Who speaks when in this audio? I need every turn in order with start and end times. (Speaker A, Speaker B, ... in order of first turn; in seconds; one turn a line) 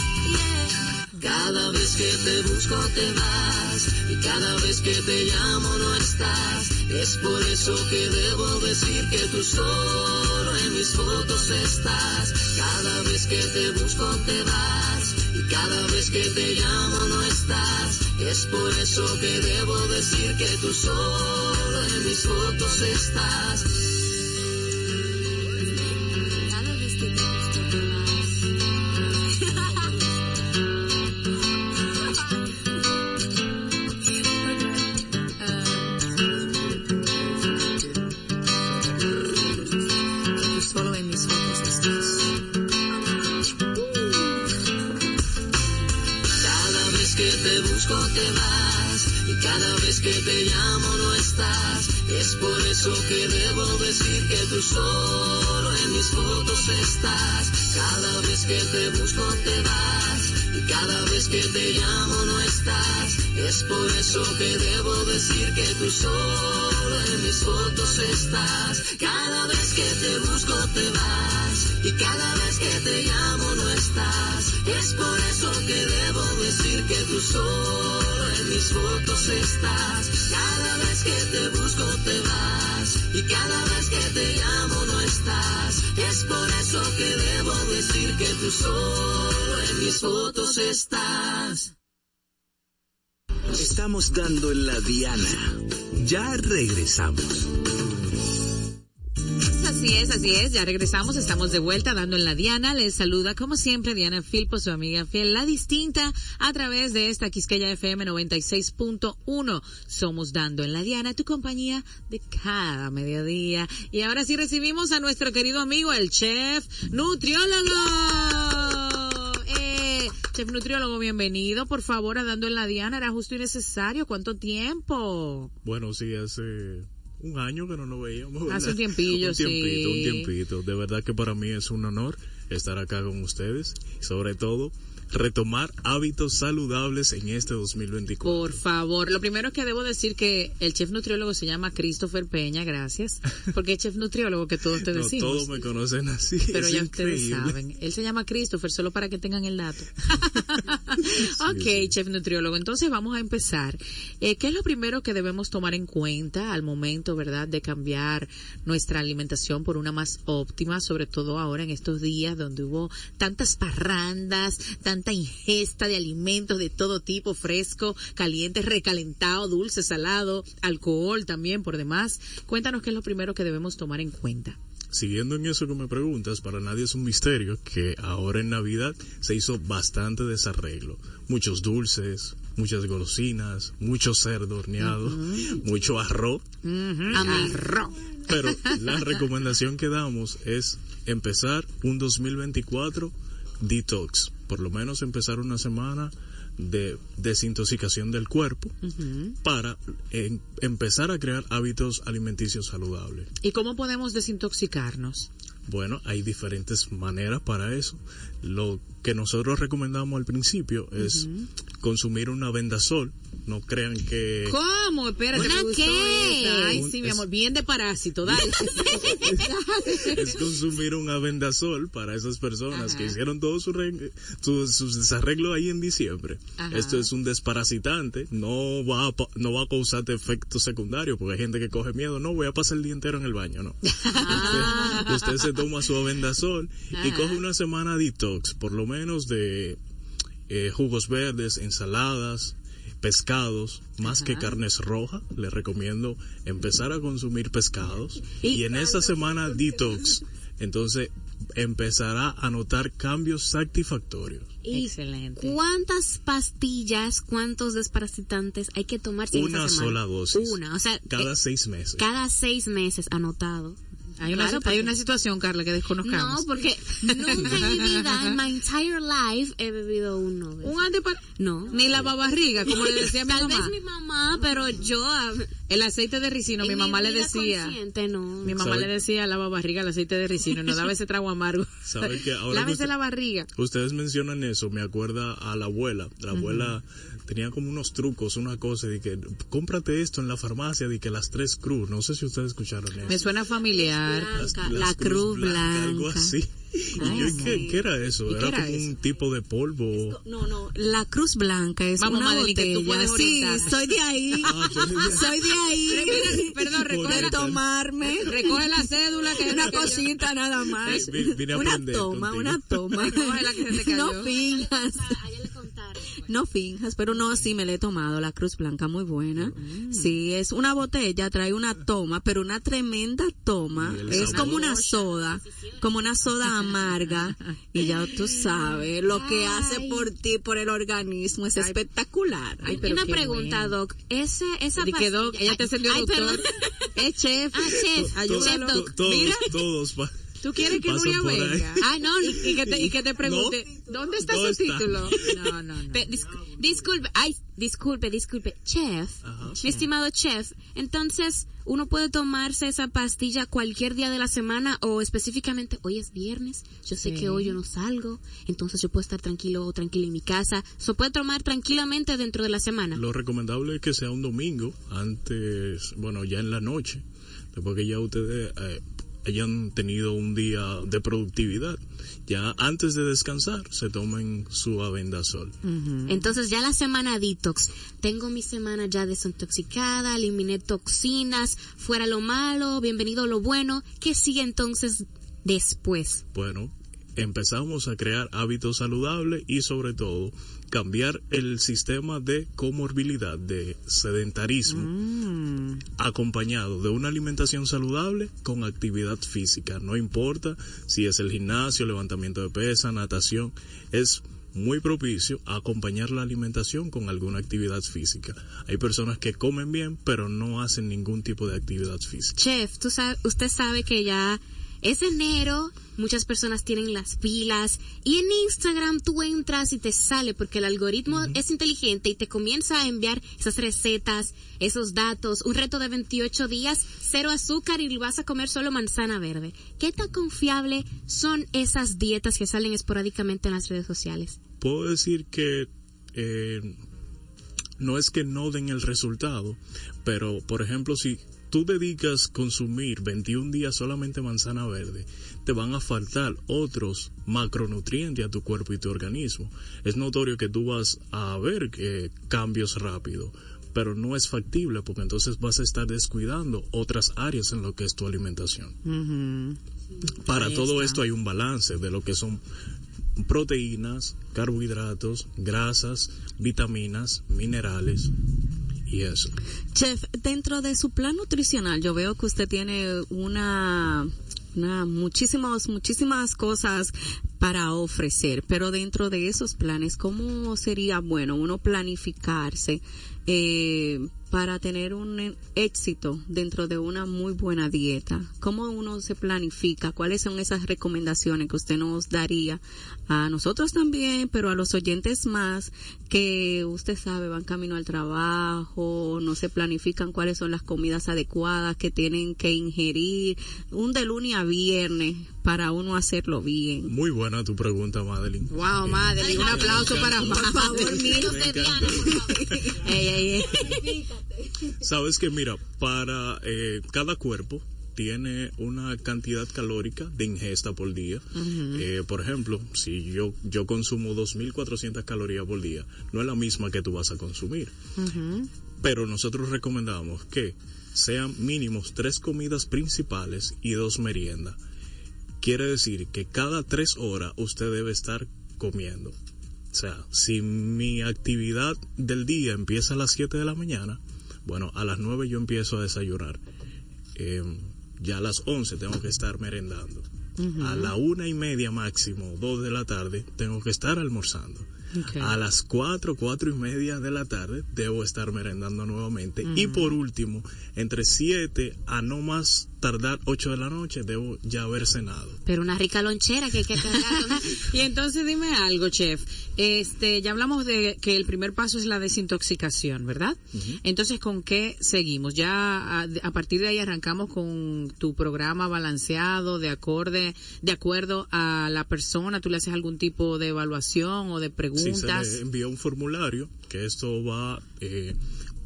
Speaker A: 1.2-23.8
Speaker B: 40.4-42.1
Speaker A: 46.4-91.7
Speaker C: 93.5-97.5
Speaker D: 99.5-125.5
Speaker E: 125.6-138.6
Speaker D: 128.5-130.3
Speaker D: 138.2-145.5
Speaker E: 144.9-147.6
Speaker D: 146.5-174.6
Speaker E: 151.1-151.9
Speaker E: 174.9-186.4
Speaker D: 184.8-185.6
Speaker D: 186.6-187.9
Speaker F: 187.1-187.7
Speaker E: 188.3-198.7
Speaker D: 198.8-199.3
Speaker E: 199.4-203.3
Speaker D: 203.4-205.3
Speaker E: 205.7-211.3
Speaker D: 211.0-211.5
Speaker E: 211.8-214.6
Speaker D: 214.4-220.3
Speaker F: 215.3-216.8
Speaker E: 216.7-217.2
Speaker F: 219.0-219.3
Speaker E: 220.1-239.8
Speaker D: 222.7-223.2
Speaker D: 226.6-227.1
Speaker D: 234.0-235.3
Speaker F: 234.5-234.9
Speaker D: 236.9-237.4
Speaker E: 240.5-254.6
Speaker D: 244.0-244.5
Speaker F: 248.4-249.1
Speaker F: 254.6-261.3
Speaker D: 254.7-255.6
Speaker E: 259.3-262.1
Speaker F: 261.9-264.9
Speaker D: 264.2-268.0
Speaker F: 266.0-272.0
Speaker D: 270.6-273.7
Speaker F: 272.6-275.5
Speaker D: 275.7-277.8
Speaker F: 276.6-278.6
Speaker D: 278.4-283.5
Speaker E: 278.5-278.9
Speaker E: 281.9-282.9
Speaker E: 283.5-293.2
Speaker D: 286.3-286.7
Speaker D: 293.1-294.5
Speaker B: 293.6-296.4
Speaker E: 294.3-300.2
Speaker B: 297.0-297.9
Speaker D: 297.0-297.6
Speaker B: 298.4-298.8
Speaker B: 299.9-308.6
Speaker D: 302.0-303.8
Speaker E: 304.4-305.6
Speaker D: 305.8-307.5
Speaker E: 306.4-307.6
Speaker D: 308.2-310.1
Speaker B: 309.3-315.2
Speaker E: 310.8-312.9
Speaker D: 312.9-314.4
Speaker F: 314.6-316.1
Speaker B: 316.2-332.8
Speaker D: 319.6-320.1
Speaker E: 323.8-324.8
Speaker F: 324.1-325.8
Speaker F: 329.0-330.1
Speaker D: 332.6-333.7
Speaker F: 332.7-336.9
Speaker D: 334.8-339.5
Speaker F: 337.5-339.4
Speaker E: 338.2-341.9
Speaker D: 340.4-346.1
Speaker F: 341.8-342.6
Speaker E: 342.5-343.6
Speaker E: 344.2-345.2
Speaker F: 345.9-363.0
Speaker E: 349.2-349.6
Speaker D: 357.0-357.6
Speaker E: 362.9-375.5
Speaker D: 375.6-376.3
Speaker F: 376.1-386.2
Speaker E: 386.3-394.9
Speaker D: 394.7-395.8
Speaker E: 396.0-412.4
Speaker F: 412.4-434.4
Speaker E: 434.6-436.8
Speaker E: 437.8-458.8
Speaker D: 458.8-459.6
Speaker E: 460.2-462.4
Speaker D: 460.3-461.0
Speaker E: 463.2-468.1
Speaker E: 468.9-469.3
Speaker B: 469.7-506.9
Speaker E: 506.9-510.5
Speaker D: 508.5-511.1
Speaker F: 509.2-512.9
Speaker B: 510.4-512.7
Speaker E: 511.1-512.2
Speaker D: 512.8-513.9
Speaker E: 514.8-527.7
Speaker D: 521.3-521.9
Speaker D: 528.0-528.5
Speaker E: 528.8-534.6
Speaker E: 535.4-539.1
Speaker E: 539.7-546.4
Speaker E: 547.1-550.0
Speaker D: 550.4-550.9
Speaker E: 550.6-565.4
Speaker D: 554.9-555.4
Speaker D: 559.4-560.0
Speaker F: 565.5-567.6
Speaker D: 566.9-585.4
Speaker E: 573.5-573.8
Speaker E: 584.8-588.2